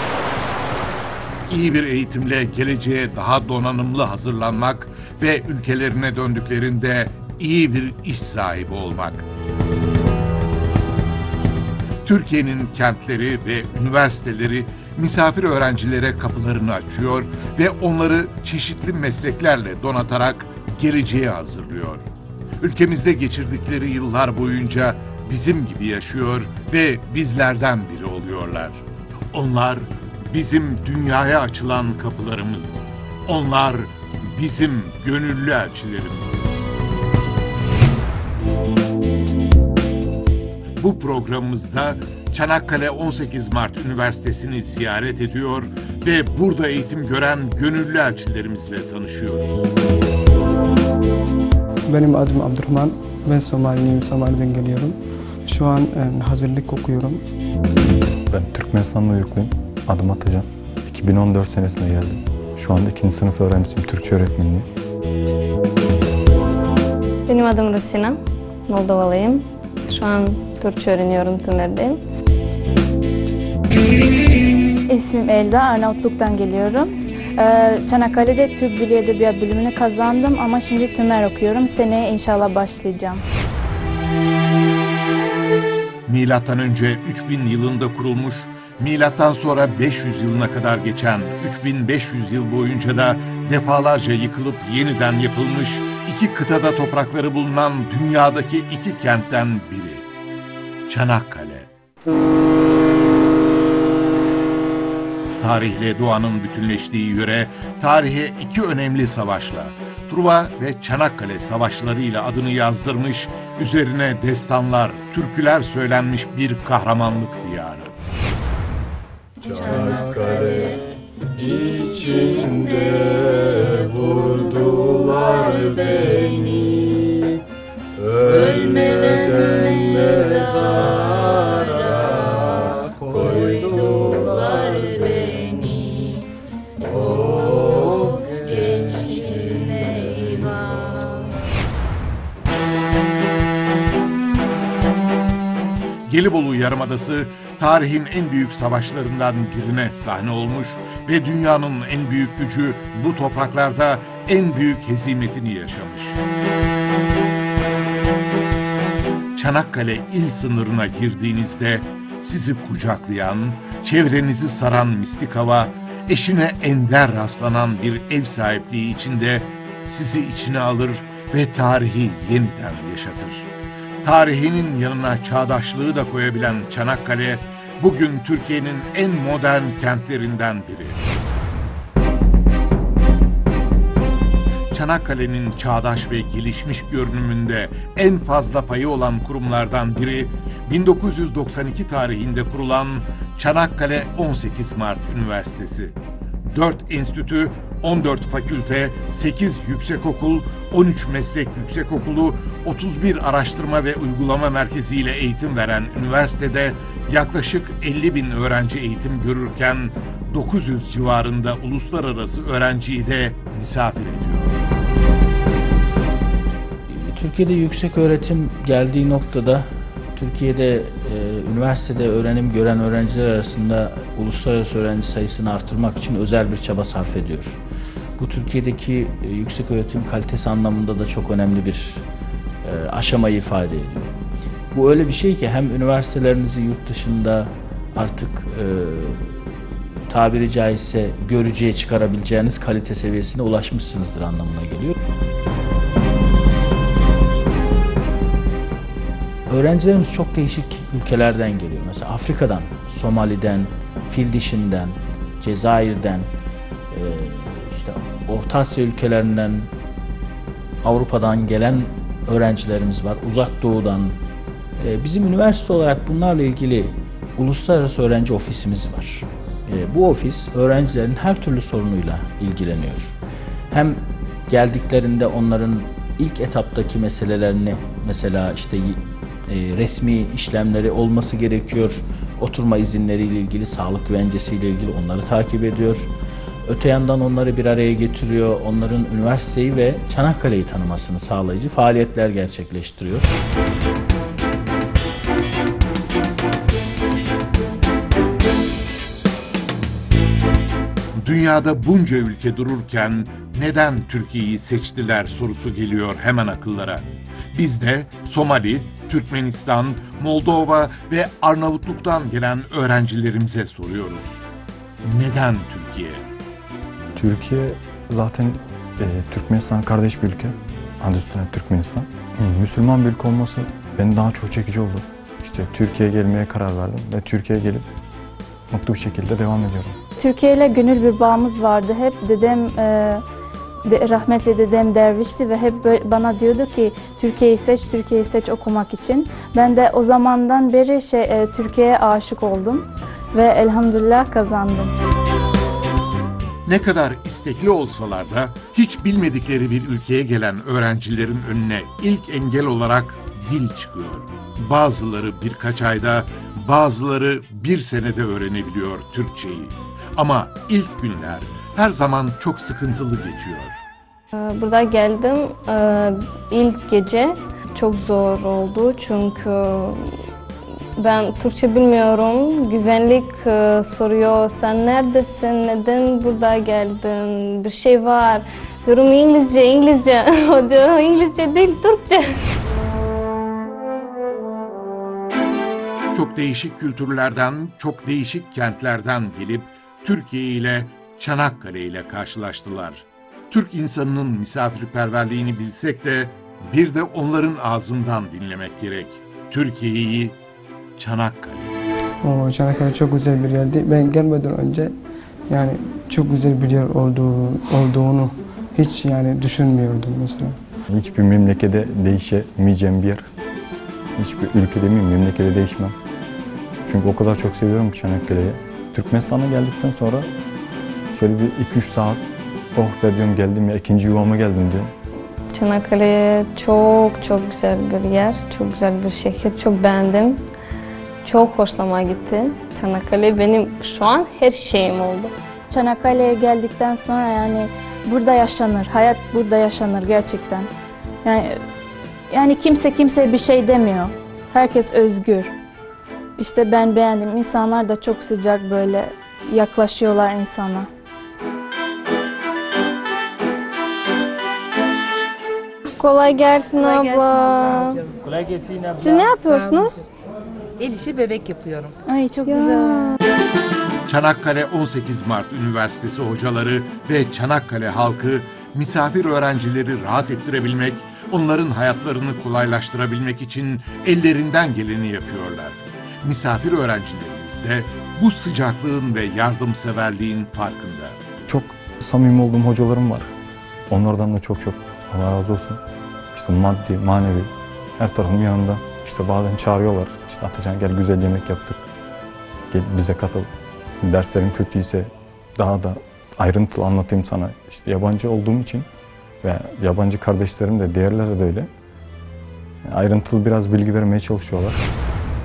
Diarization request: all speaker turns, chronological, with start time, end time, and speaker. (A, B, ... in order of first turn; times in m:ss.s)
0:01.5-0:09.3 A
0:12.0-0:22.0 A
0:22.6-0:28.8 A
0:29.3-0:36.5 A
0:40.8-0:49.7 A
0:51.9-0:57.2 B
0:58.3-1:04.7 C
1:07.3-1:12.0 D
1:14.9-1:23.2 E
1:26.1-1:40.0 A
1:40.9-1:41.7 A
1:45.4-1:58.0 A
1:59.6-2:00.4 C
2:01.6-2:03.0 C
2:04.4-2:07.2 F
2:08.4-2:16.2 F
2:17.2-2:19.8 F
2:20.4-2:21.3 F
2:26.1-2:36.2 A
2:39.4-2:53.5 A
2:54.0-3:01.0 A
3:04.7-3:16.0 A
3:16.5-3:34.6 A
3:36.9-3:47.6 G
3:48.2-3:52.1 G
3:52.6-3:54.2 G
3:54.7-4:05.0 G
4:09.5-4:16.3 G
4:16.9-4:19.7 G
4:20.8-4:24.2 G
4:24.8-4:33.2 G
4:33.7-4:46.1 G
4:46.6-4:53.3 G
5:01.2-5:14.4 A
5:15.0-5:16.2 A
5:17.2-5:27.9 C
5:28.7-5:30.0 C
5:30.2-5:33.2 E
5:33.9-5:44.9 E
5:46.7-6:03.8 A
6:04.3-6:10.2 D
6:11.0-6:22.4 D
6:26.1-6:40.4 A
6:41.0-6:41.8 A
6:42.2-6:44.9 B
6:45.5-6:50.6 B
6:50.9-6:53.3 C
6:54.2-6:56.0 C
6:56.8-7:00.3 C
7:01.1-7:02.2 C
7:02.8-7:04.9 C
7:05.5-7:10.4 D
7:11.2-7:15.3 D
7:15.7-7:20.7 E
7:21.2-7:21.6 E
7:22.3-7:25.5 E
7:26.4-7:30.9 E
7:36.0-7:38.0 D
7:36.8-7:40.1 F
7:39.0-7:40.0 D
7:40.8-7:41.9 F
7:42.1-7:43.1 E
7:42.5-7:43.1 D
7:44.1-8:01.2 A
8:01.5-8:03.3 C
8:03.9-8:05.8 C
8:06.3-8:11.8 C
8:12.7-8:13.5 C
8:14.0-8:18.9 C
8:19.4-8:21.7 C
8:22.9-8:24.8 C